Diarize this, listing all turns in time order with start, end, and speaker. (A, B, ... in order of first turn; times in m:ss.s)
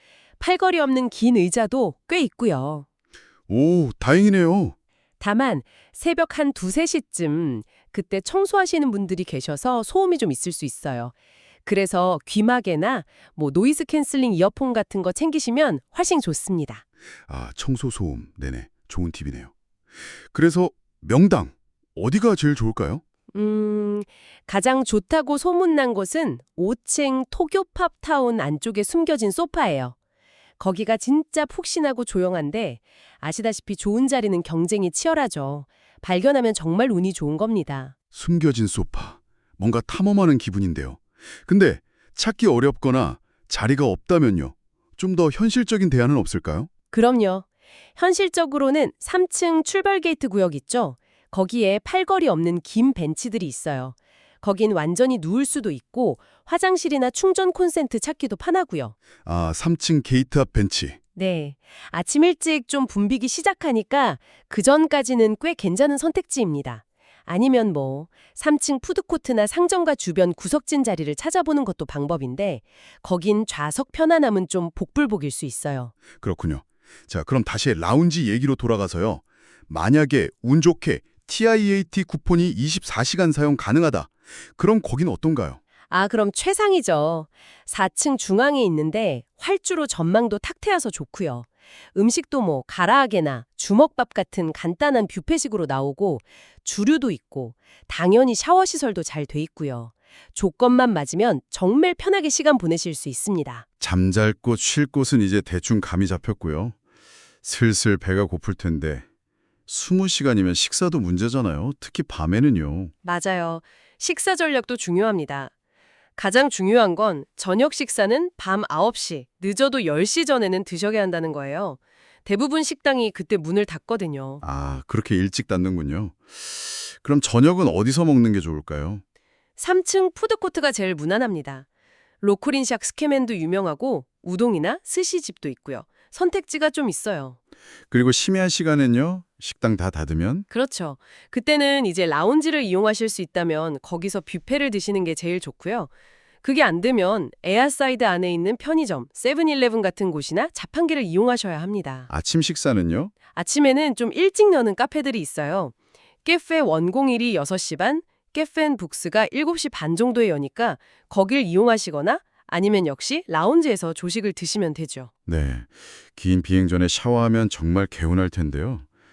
0:00.4-0:02.8 A
0:03.5-0:04.7 B
0:05.2-0:11.1 A
0:11.6-0:16.8 A
0:17.3-0:19.5 B
0:20.3-0:23.0 B
0:23.3-0:29.9 A
0:30.6-0:37.9 A
0:38.1-0:46.7 B
0:46.9-0:47.4 A
0:48.0-0:58.9 A
0:59.2-1:01.0 B
1:01.2-1:15.9 A
1:16.2-1:25.6 B
1:25.9-1:43.6 A
1:43.8-1:46.7 B
1:47.4-1:49.0 B
1:49.7-1:52.9 B
1:53.0-1:55.5 A
1:56.2-2:04.4 A
2:04.4-2:09.0 B
2:09.6-2:11.6 A
2:12.2-2:17.4 A
2:17.9-2:20.4 B
2:20.5-2:25.9 A
2:26.4-2:32.1 A
2:32.1-2:33.1 B
2:33.3-2:35.7 A
2:36.2-2:45.1 A
2:45.3-2:48.8 B